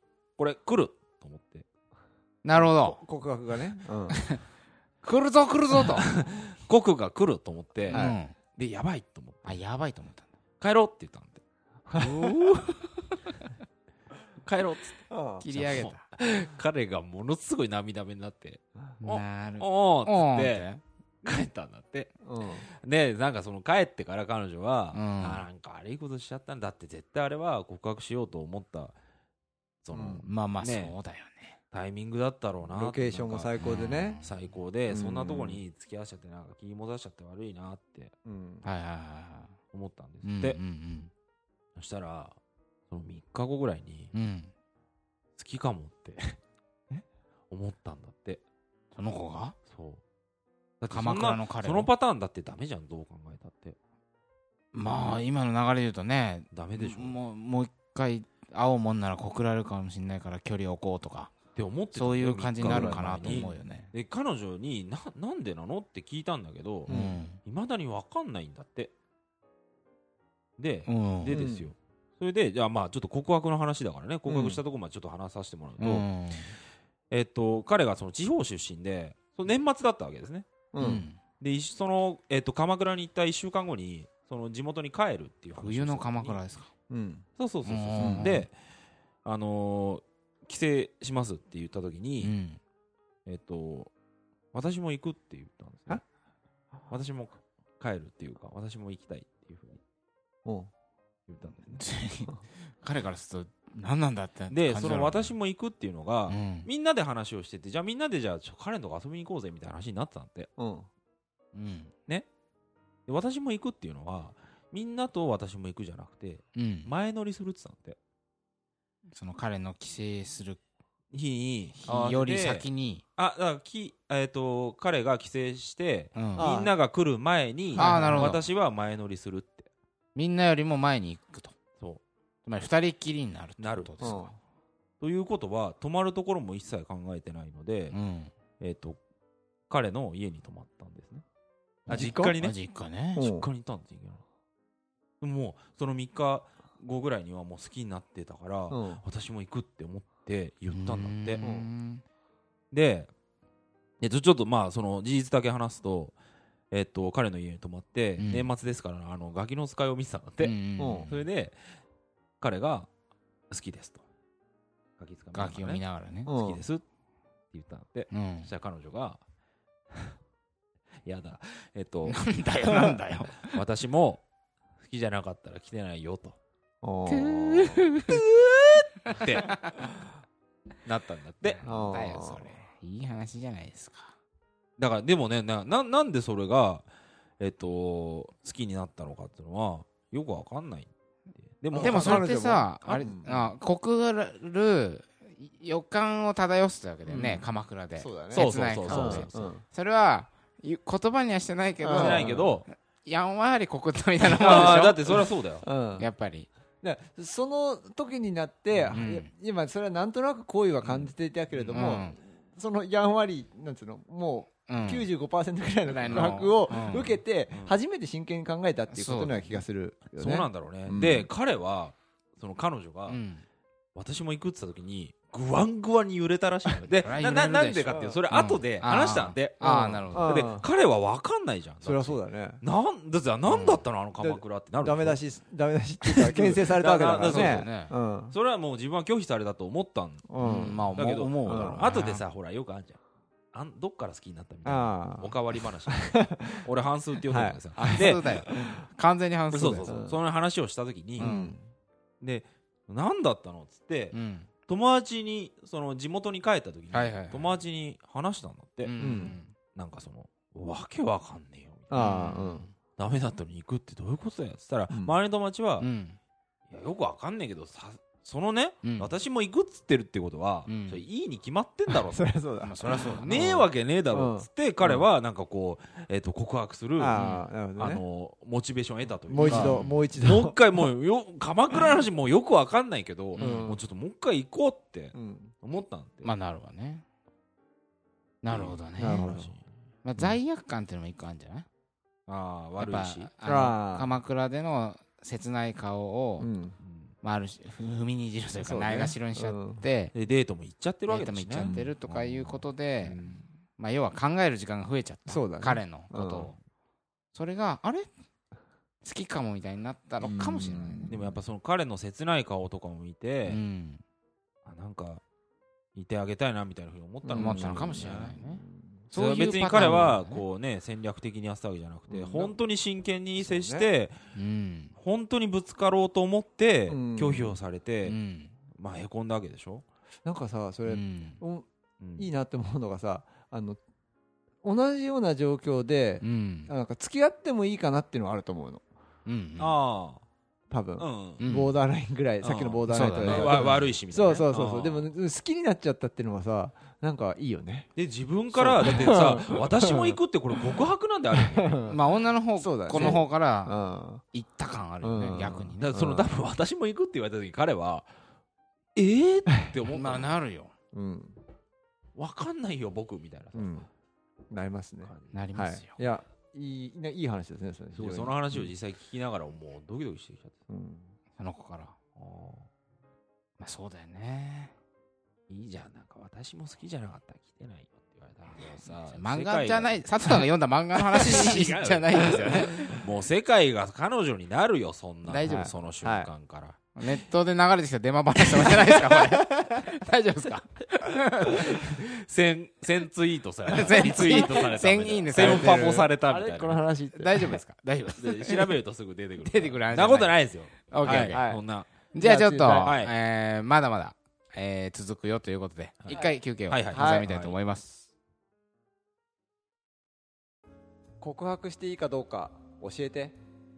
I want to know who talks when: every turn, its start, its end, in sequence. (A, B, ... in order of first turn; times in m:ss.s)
0:00.4-0:01.7 A
0:02.4-0:03.0 B
0:02.5-0:04.2 C
0:04.1-0:04.4 B
0:05.0-0:06.1 B
0:06.0-0:09.6 A
0:07.9-0:08.3 B
0:07.9-0:08.2 C
0:09.5-0:10.3 B
0:10.6-0:11.4 A
0:11.9-0:12.8 A
0:14.4-0:20.7 A
0:15.1-0:15.4 C
0:15.4-0:16.0 B
0:19.0-0:20.8 B
0:21.2-0:29.0 A
0:22.2-0:22.7 C
0:24.9-0:25.5 B
0:29.8-0:30.9 A
0:29.9-0:30.2 C
0:30.3-0:31.6 B
0:31.7-0:38.1 A
0:32.7-0:34.2 C
0:33.6-0:34.4 B
0:34.9-0:35.6 C
0:38.2-0:38.6 C
0:38.6-0:39.6 B
0:39.7-0:40.6 A
0:40.2-0:41.1 B
0:41.8-0:42.4 A
0:42.9-0:44.1 A
0:44.1-0:44.5 B
0:45.4-0:46.4 A
0:47.5-0:48.4 A
0:49.0-0:49.6 B
0:49.7-0:50.0 A
0:50.8-0:53.8 A
0:50.9-0:51.9 B
0:54.7-1:01.4 B
0:56.5-0:57.2 A
1:01.6-1:08.9 A
1:01.9-1:03.9 B
1:02.6-1:03.5 C
1:06.9-1:07.2 C
1:06.9-1:07.4 B
1:10.6-1:16.1 A
1:10.9-1:11.4 B
1:11.3-1:11.7 C
1:14.3-1:14.6 C
1:15.8-1:16.5 B
1:17.1-1:20.5 A
1:20.7-1:21.0 C
1:20.8-1:21.2 B
1:21.4-1:26.4 A
1:25.6-1:26.7 B
1:26.9-1:27.2 C
1:27.4-1:28.5 A
1:27.6-1:28.5 B
1:28.0-1:28.4 C
1:29.2-1:32.3 A
1:32.2-1:32.6 B
1:33.3-1:33.9 A
1:34.5-1:36.0 A
1:36.9-1:39.8 A
1:40.4-1:40.7 C
1:41.3-1:41.8 A
1:41.7-1:45.4 B
1:44.5-1:50.5 A
1:46.3-1:46.7 B
1:50.6-1:50.9 C
1:51.5-1:51.9 B
1:53.1-1:58.0 A
1:56.6-1:56.9 B
1:59.1-2:00.6 B
2:01.1-2:09.7 A
2:01.8-2:03.0 B
2:01.9-2:02.2 C
2:06.2-2:06.5 B
2:06.4-2:06.7 C
2:07.7-2:08.4 C
2:07.8-2:08.4 B
2:10.2-2:11.5 B
2:12.4-2:14.3 B
2:13.6-2:14.2 A
2:14.0-2:14.3 C
2:15.0-2:18.0 A
2:17.9-2:18.3 B
2:18.6-2:19.0 A
2:19.7-2:21.2 A
2:21.9-2:22.4 C
2:21.9-2:22.6 A
2:21.9-2:23.3 B
2:23.2-2:23.5 C
2:23.2-2:24.2 A
2:25.2-2:31.4 A
2:28.7-2:29.0 C
2:30.7-2:32.0 B
2:31.4-2:31.7 C
2:32.7-2:33.1 A
2:34.0-2:36.2 A
2:36.7-2:41.6 A
2:38.2-2:38.5 B
2:40.4-2:41.2 B
2:40.8-2:41.1 C
2:42.4-2:42.9 A
2:43.5-2:44.0 A
2:45.0-2:46.8 A
2:45.3-2:46.3 B
2:46.3-2:46.6 C
2:47.5-2:49.2 A
2:48.1-2:48.5 B
2:51.0-2:52.2 A
2:52.0-2:53.6 B
2:52.7-2:53.0 C
2:53.4-2:54.2 A
2:54.8-2:56.4 A
2:56.8-2:57.4 C
2:57.1-2:58.3 B
2:57.3-2:58.1 A
2:59.0-2:59.8 B
2:59.1-2:59.6 A
3:00.8-3:01.6 A
3:01.4-3:04.1 B
3:01.6-3:02.5 C
3:04.8-3:06.9 A
3:07.4-3:13.5 A
3:11.7-3:13.3 C
3:11.8-3:25.2 B
3:17.1-3:19.6 C
3:18.3-3:19.6 A
3:21.8-3:22.5 C
3:21.9-3:22.7 A
3:24.3-3:25.7 A
3:24.5-3:24.7 C
3:25.6-3:26.1 C
3:26.0-3:26.5 B
3:26.8-3:41.3 C
3:28.9-3:29.3 B
3:30.8-3:32.0 A
3:31.7-3:32.2 B
3:34.7-3:35.1 B
3:35.9-3:37.2 B
3:37.5-3:37.8 A
3:38.9-3:39.6 B
3:40.2-3:43.2 A
3:43.1-3:43.4 B
3:44.0-3:49.6 A
3:47.0-3:50.4 B
3:47.9-3:48.2 C
3:49.6-3:50.7 C
3:50.1-3:55.2 A
3:51.8-3:52.6 C
3:53.5-3:53.8 B
3:54.2-3:58.4 C
3:56.0-3:57.7 A
3:57.2-3:57.9 B
3:58.3-4:00.3 A
4:00.3-4:00.9 C
4:00.4-4:02.2 B
4:00.9-4:03.0 A
4:01.4-4:01.9 C
4:03.5-4:08.4 A
4:04.6-4:05.4 C
4:05.9-4:06.7 C
4:07.3-4:08.7 C
4:07.8-4:10.0 B
4:09.5-4:11.4 A
4:09.9-4:10.2 C
4:11.2-4:11.6 B
4:11.2-4:11.6 C
4:12.2-4:14.2 A
4:14.1-4:14.5 B
4:14.7-4:22.4 A
4:16.9-4:17.6 B
4:18.8-4:19.5 B
4:19.0-4:19.4 C
4:21.9-4:22.7 C
4:22.0-4:22.7 B
4:22.9-4:25.9 A
4:24.9-4:25.2 C
4:25.8-4:26.2 B
4:26.7-4:32.3 A
4:28.8-4:29.1 B
4:30.7-4:31.0 B
4:31.9-4:35.1 C
4:32.6-4:33.4 B
4:33.2-4:37.2 A
4:37.0-4:38.0 C
4:37.2-4:37.5 B
4:37.8-4:46.3 A
4:39.3-4:40.6 C
4:39.4-4:39.8 B
4:43.4-4:43.7 B
4:43.4-4:43.8 C
4:45.1-4:45.5 C
4:46.2-4:47.0 B
4:48.4-4:49.4 B
4:48.5-4:49.6 A
4:49.0-4:49.5 C
4:50.0-4:51.7 B
4:52.3-4:53.3 A
4:52.8-4:56.5 B
4:53.4-4:54.2 C
4:56.4-4:56.8 C
4:56.8-4:57.1 A
4:57.2-5:00.1 B
4:58.6-4:59.8 C
5:00.1-5:03.4 A
5:01.1-5:03.2 B
5:01.6-5:01.9 C
5:03.8-5:06.6 B
5:05.3-5:06.5 C
5:07.3-5:08.1 B
5:09.0-5:11.1 B
5:10.2-5:11.4 C
5:11.1-5:13.6 A
5:13.5-5:14.0 B
5:14.6-5:15.2 A
5:16.0-5:18.4 A
5:17.2-5:19.0 C
5:17.4-5:20.4 B
5:19.1-5:24.2 A
5:19.7-5:20.2 C
5:22.1-5:22.5 C
5:23.4-5:23.9 C
5:24.3-5:24.9 B
5:25.0-5:28.2 A
5:26.9-5:27.6 C
5:28.0-5:28.5 B
5:28.7-5:29.8 A
5:30.2-5:33.8 C
5:30.9-5:31.4 B
5:32.0-5:32.3 A
5:34.6-5:38.8 C
5:36.2-5:36.7 B
5:39.3-5:39.8 B
5:39.6-5:40.2 A
5:40.7-5:47.9 C
5:41.0-5:41.4 A
5:41.4-5:41.7 B
5:42.4-5:45.1 A
5:42.9-5:43.8 B
5:48.0-5:51.8 A
5:48.5-5:50.2 C
5:51.4-5:52.0 C
5:51.9-5:56.0 B
5:52.6-5:54.2 C
5:53.0-5:53.2 A
5:55.0-5:56.3 C
5:55.8-5:58.1 A
5:59.0-6:00.4 A
5:59.9-6:00.7 B
6:00.9-6:01.4 C
6:02.2-6:03.7 A
6:03.6-6:03.9 C
6:04.5-6:08.7 C
6:05.1-6:05.4 A
6:05.3-6:06.0 B
6:08.0-6:10.6 A
6:10.7-6:11.1 C
6:11.4-6:12.0 B
6:12.2-6:12.7 A
6:13.6-6:14.7 B
6:15.5-6:20.1 A
6:19.1-6:23.0 B
6:21.1-6:26.8 A
6:25.2-6:25.7 B
6:25.4-6:26.3 C
6:27.0-6:31.8 B
6:28.6-6:29.9 C
6:31.6-6:36.8 A
6:33.7-6:36.1 B
6:34.1-6:34.6 C
6:35.3-6:37.6 C
6:37.2-6:38.7 B
6:38.2-6:41.9 A
6:39.4-6:41.4 B
6:41.3-6:41.6 C
6:42.1-6:48.1 B
6:42.2-6:42.9 C
6:42.8-6:43.1 A
6:46.0-6:47.6 A
6:46.9-6:47.3 C
6:51.2-6:53.4 C